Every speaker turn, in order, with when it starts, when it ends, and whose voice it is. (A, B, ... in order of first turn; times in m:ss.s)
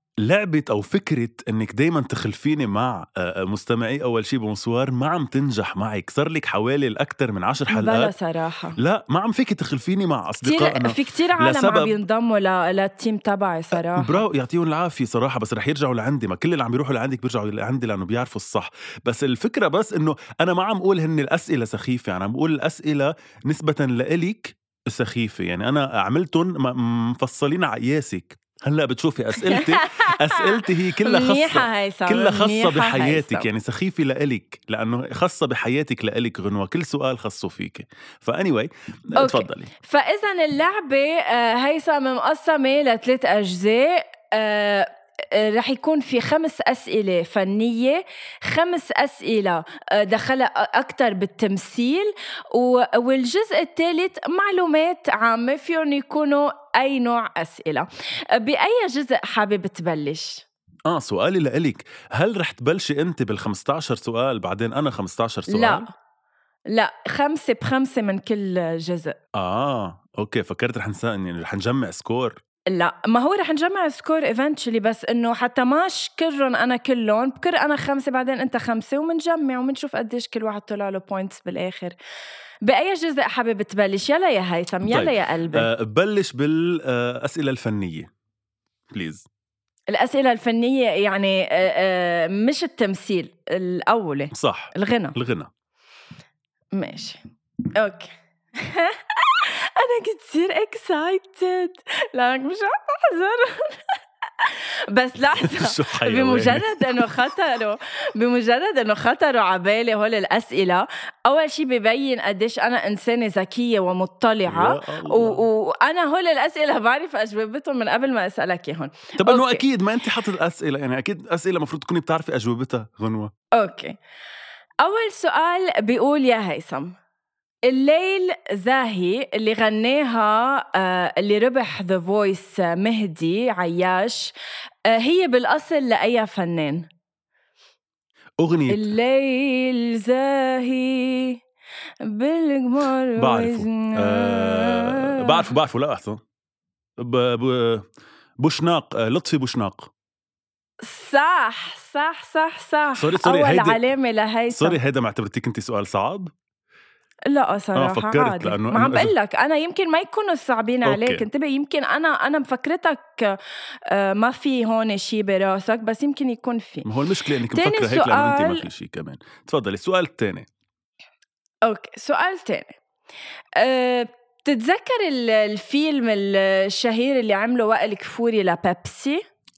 0:00.2-0:08.1 A
0:07.7-0:08.8 B
0:08.8-0:12.0 A
0:10.4-0:14.2 B
0:13.7-0:39.7 A
0:29.4-0:33.5 B
0:39.2-1:00.4 B
1:00.9-1:05.9 A
1:05.5-1:05.9 B
1:06.7-1:09.2 B
1:09.4-1:12.4 A
1:12.7-1:22.0 B
1:22.6-1:25.7 B
1:24.9-1:28.1 A
1:28.9-1:29.3 A
1:29.9-1:35.2 B
1:34.3-1:35.5 A
1:36.7-1:37.2 B
1:37.8-1:59.6 B
1:45.3-1:47.3 A
1:54.5-1:55.5 A
1:59.2-2:03.3 A
2:03.5-2:04.0 B
2:04.8-2:07.0 B
2:07.7-2:14.3 B
2:14.9-2:16.9 B
2:18.4-2:18.9 A
2:18.7-2:21.4 B
2:22.0-2:25.5 B
2:23.2-2:26.2 A
2:27.0-2:27.9 A
2:28.4-2:29.9 A
2:30.8-2:34.8 B
2:33.0-2:33.8 A
2:34.5-2:36.3 A
2:37.3-2:46.9 B
2:37.8-2:39.1 A
2:40.8-2:41.3 A
2:46.8-2:50.5 A
2:47.5-2:48.7 B
2:51.6-2:52.8 B
2:53.6-2:59.2 B